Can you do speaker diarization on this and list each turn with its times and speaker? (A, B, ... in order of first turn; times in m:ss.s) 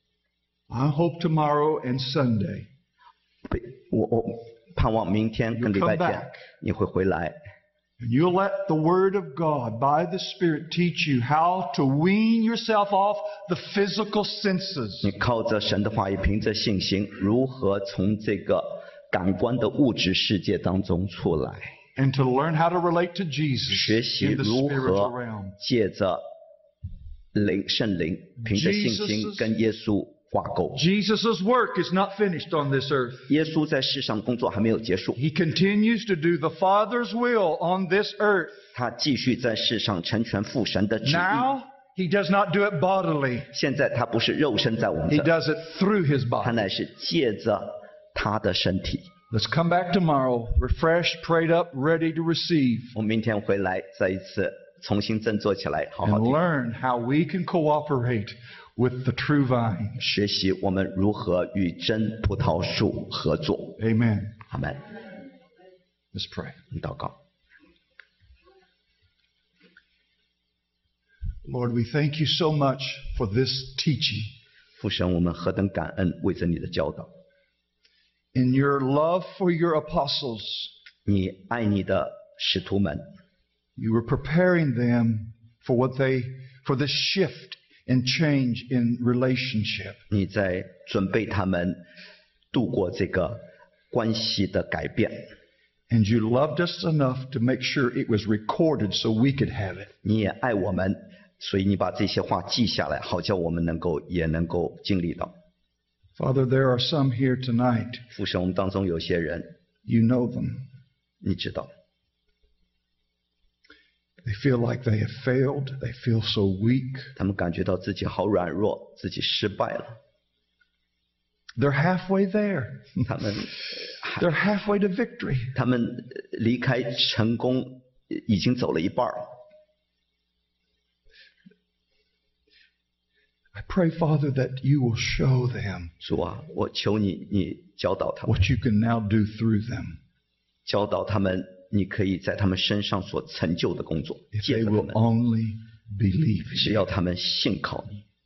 0:00.7-0:02.7 A
0:03.5-0:07.4 B
0:05.5-0:06.4 A
0:08.0-0:15.1 A
0:15.0-0:21.8 B
0:22.0-0:25.6 A
0:23.7-0:26.2 B
0:27.3-0:30.8 B
0:28.4-0:29.5 A
0:30.7-0:33.3 A
0:33.3-0:35.2 B
0:35.2-0:38.6 A
0:38.7-0:41.5 B
0:41.0-0:43.5 A
0:43.5-0:45.3 B
0:45.1-0:46.6 A
0:46.4-0:49.1 B
0:49.3-0:52.9 A
0:53.0-0:56.4 B
0:56.0-1:00.0 A
1:00.0-1:03.8 B
1:03.8-1:04.4 A
1:04.5-1:04.9 B
1:06.1-1:06.6 A
1:06.7-1:07.2 B
1:11.4-1:14.3 A
1:14.8-1:17.1 B
1:18.3-1:20.7 A
1:21.1-1:23.0 B
1:23.8-1:30.0 A
1:30.1-1:31.8 B
1:32.5-1:35.3 B
1:35.9-1:39.9 A
1:40.0-1:45.3 B
1:46.2-1:48.0 A
1:48.1-1:49.5 B
1:49.9-1:50.6 A
1:51.2-1:51.7 B
1:54.2-1:57.1 A
1:57.2-2:00.0 B
2:01.6-2:03.1 A
2:03.0-2:04.2 B
2:04.2-2:05.5 A
2:05.6-2:09.4 B
2:13.5-2:15.9 A
2:16.0-2:18.4 B
2:18.3-2:20.0 A
2:20.7-2:25.0 B
2:24.3-2:26.8 A
2:26.6-2:28.0 B